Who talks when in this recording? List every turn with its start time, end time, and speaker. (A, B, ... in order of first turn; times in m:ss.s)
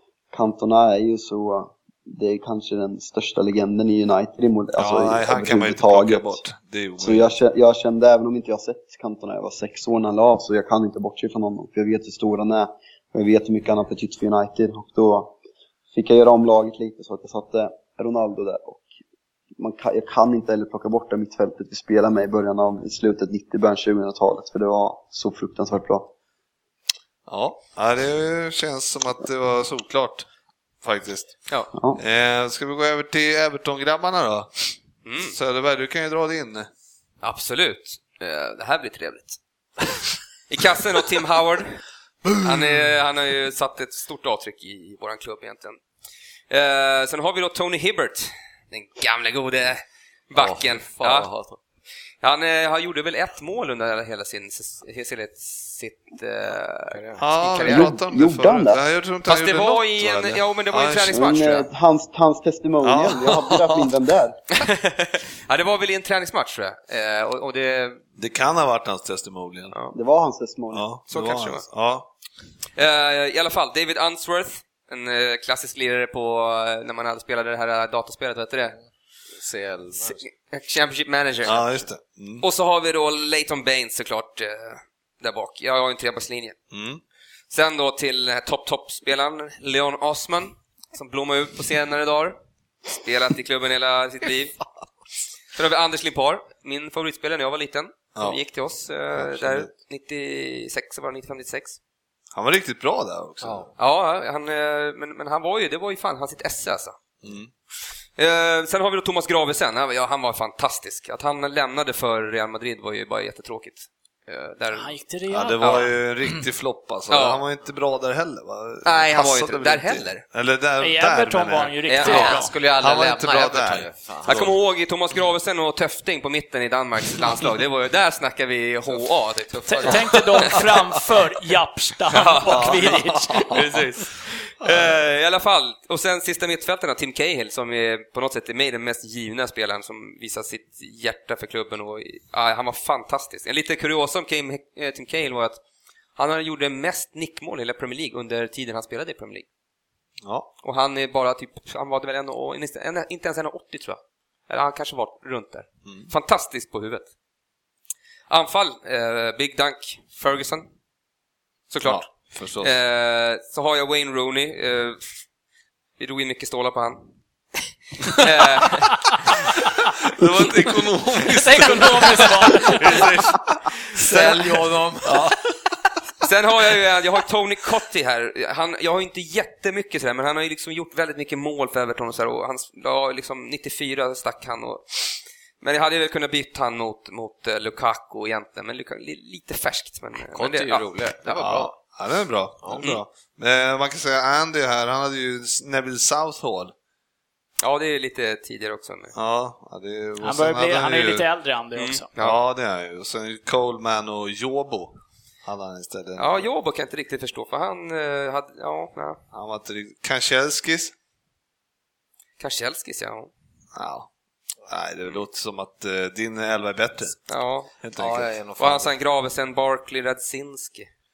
0:00.3-0:06.4 A
0:04.8-0:07.4 B
0:07.0-0:15.4 A
0:15.9-0:18.9 A
0:19.6-0:26.1 A
0:27.3-0:30.3 B
0:30.8-0:31.4 B
0:31.8-0:32.0 A
0:32.0-0:34.7 B
0:35.0-0:35.4 C
0:35.3-0:36.7 B
0:37.2-0:39.4 C
0:40.5-0:41.8 C
0:42.4-0:45.8 C
0:46.5-0:51.3 C
0:50.3-0:51.6 D
0:52.2-0:57.9 C
0:56.9-0:57.3 D
0:57.2-1:01.2 B
0:57.7-0:58.8 A
0:59.3-1:01.7 C
1:01.1-1:04.4 A
1:02.8-1:03.9 B
1:04.5-1:08.0 C
1:08.2-1:09.7 B
1:09.9-1:10.9 A
1:10.7-1:12.1 B
1:11.1-1:11.6 C
1:12.8-1:18.8 C
1:19.4-1:20.2 D
1:20.0-1:21.7 C
1:21.4-1:22.4 B
1:22.4-1:26.6 C
1:26.7-1:27.0 B
1:27.5-1:34.6 C
1:35.5-1:41.8 C
1:39.2-1:39.7 B
1:42.3-1:43.7 B
1:43.4-1:43.7 D
1:43.8-1:47.0 C
1:47.2-1:47.5 B
1:48.2-1:54.9 C
1:54.7-1:56.4 E
1:55.3-2:04.5 B
1:55.6-1:55.9 C
1:57.1-1:57.4 C
1:58.8-2:00.2 C
2:00.8-2:02.5 E
2:01.9-2:02.4 C
2:02.0-2:04.5 D
2:04.3-2:10.6 C
2:09.7-2:13.6 E
2:12.1-2:13.0 C
2:12.5-2:13.8 B
2:13.5-2:25.6 C
2:14.6-2:15.0 B
2:26.2-2:29.5 C
2:30.2-2:30.5 B
2:30.6-2:37.1 C
2:38.3-2:40.7 C
2:41.7-2:45.1 C
2:41.8-2:42.7 B
2:46.0-2:47.1 C
2:48.1-2:49.1 C
2:50.1-2:53.2 B
2:51.3-2:53.1 E
2:52.8-2:53.1 C
2:54.0-2:55.2 D
2:54.1-2:55.4 B
2:56.2-3:11.6 C
3:10.2-3:11.7 D
3:11.4-3:16.7 B
3:17.6-3:19.2 C
3:19.2-3:21.3 B
3:20.2-3:22.1 E
3:21.8-3:22.4 C
3:22.2-3:26.5 B
3:26.2-3:29.2 C
3:29.3-3:30.9 B
3:32.4-3:33.3 C
3:33.7-3:34.1 B
3:34.7-3:37.2 B
3:37.3-3:37.7 C
3:37.8-3:38.3 B
3:38.0-3:38.9 D
3:38.6-3:40.9 C